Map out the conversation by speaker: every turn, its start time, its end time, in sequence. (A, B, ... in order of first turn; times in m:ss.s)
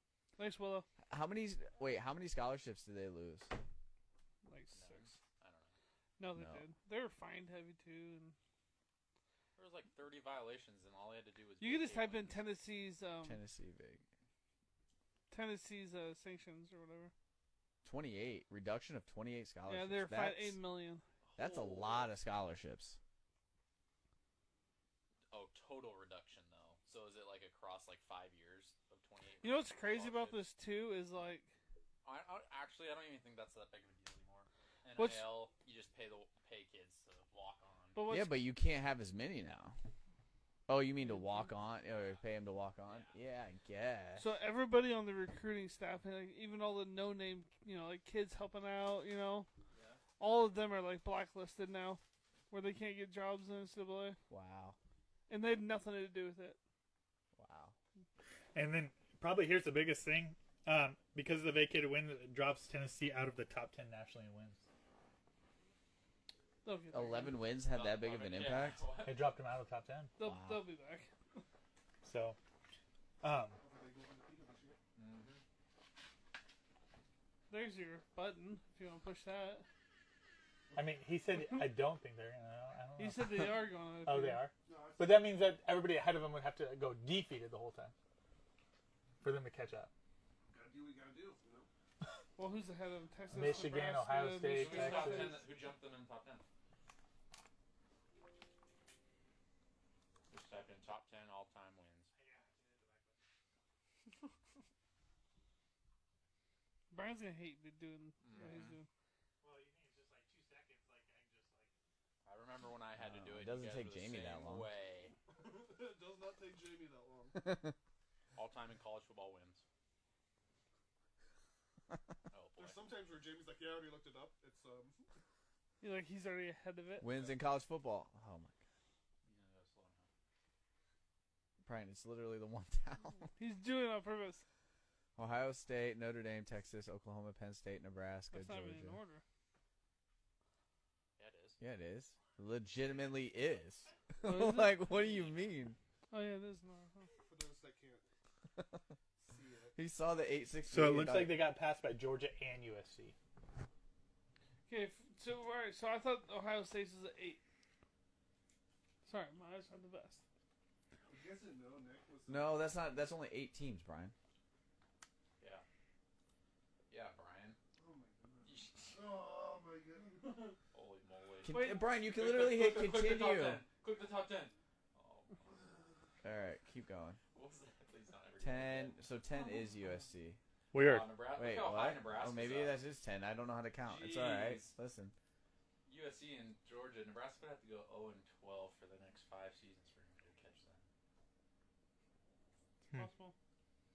0:00.4-0:00.9 A
0:01.1-0:03.5 B
0:04.4-0:05.2 A
0:04.7-0:05.7 C
0:06.2-0:08.4 A
0:06.3-0:06.6 B
0:09.6-0:12.5 C
0:11.6-0:13.4 A
0:13.2-0:14.0 B
0:15.3-0:17.1 A
0:17.8-0:20.6 B
0:19.7-0:21.0 A
0:21.2-0:21.7 C
0:21.4-0:23.0 B
0:25.3-0:30.4 C
0:29.4-0:31.5 A
0:32.0-0:38.0 C
0:35.0-0:35.4 A
0:38.0-0:38.4 A
0:38.1-0:39.8 B
0:40.7-0:44.3 B
0:41.0-0:41.5 A
0:41.8-0:42.2 C
0:42.8-0:43.2 C
0:44.2-0:49.5 A
0:49.7-0:50.0 C
0:50.2-0:54.2 A
0:54.3-0:54.8 B
0:55.3-0:56.6 A
0:57.4-0:57.8 B
0:58.6-1:04.6 D
1:06.6-1:07.5 A
1:06.9-1:08.9 B
1:07.7-1:09.4 C
1:09.0-1:10.1 D
1:10.2-1:11.1 A
1:10.2-1:10.7 B
1:12.0-1:12.4 D
1:13.2-1:13.6 D
1:13.6-1:14.8 E
1:15.0-1:15.4 C
1:17.5-1:19.7 A
1:20.8-1:27.9 D
1:23.0-1:24.4 A
1:24.6-1:25.3 E
1:29.2-1:29.9 D
1:30.5-1:31.7 E
1:32.4-1:35.4 A
1:33.3-1:35.4 D
1:34.5-1:36.4 C
1:40.3-1:42.1 C
1:42.1-1:43.2 D
1:46.9-1:48.9 A
1:48.2-1:48.8 C
1:49.4-1:51.7 D
1:52.2-1:55.1 C
1:53.0-1:54.7 B
1:55.3-1:57.6 E
1:57.4-1:57.8 B
1:58.4-1:59.6 C
2:02.3-2:03.0 C
2:02.6-2:05.1 E
2:05.8-2:07.1 A
2:07.0-2:08.6 B
2:09.2-2:10.1 C
2:11.6-2:13.2 B
2:13.4-2:14.4 A
2:15.2-2:19.0 B
2:18.3-2:19.2 A
2:21.2-2:21.6 C
2:21.6-2:25.8 B
2:24.2-2:24.8 A
2:24.8-2:25.6 C
2:26.1-2:27.1 A
2:27.2-2:28.1 E
2:29.2-2:29.8 E
2:29.8-2:31.5 B
2:30.7-2:33.2 D
2:34.7-2:37.4 A
2:39.0-2:40.2 A
2:41.1-2:42.7 E
2:42.3-2:44.2 B
2:45.4-2:45.6 C
2:46.9-2:47.6 C
2:47.8-2:50.6 E
2:48.4-2:49.2 C
2:50.7-2:55.3 C
2:51.4-2:53.6 B
2:51.5-2:51.8 A
2:55.5-2:55.9 E
2:56.2-2:57.2 B
2:57.3-2:59.0 C
2:58.4-3:00.4 B
3:00.7-3:01.1 D
3:00.7-3:02.8 C
3:01.4-3:05.2 B
3:03.8-3:04.7 C
3:05.8-3:10.8 C
3:12.9-3:13.4 A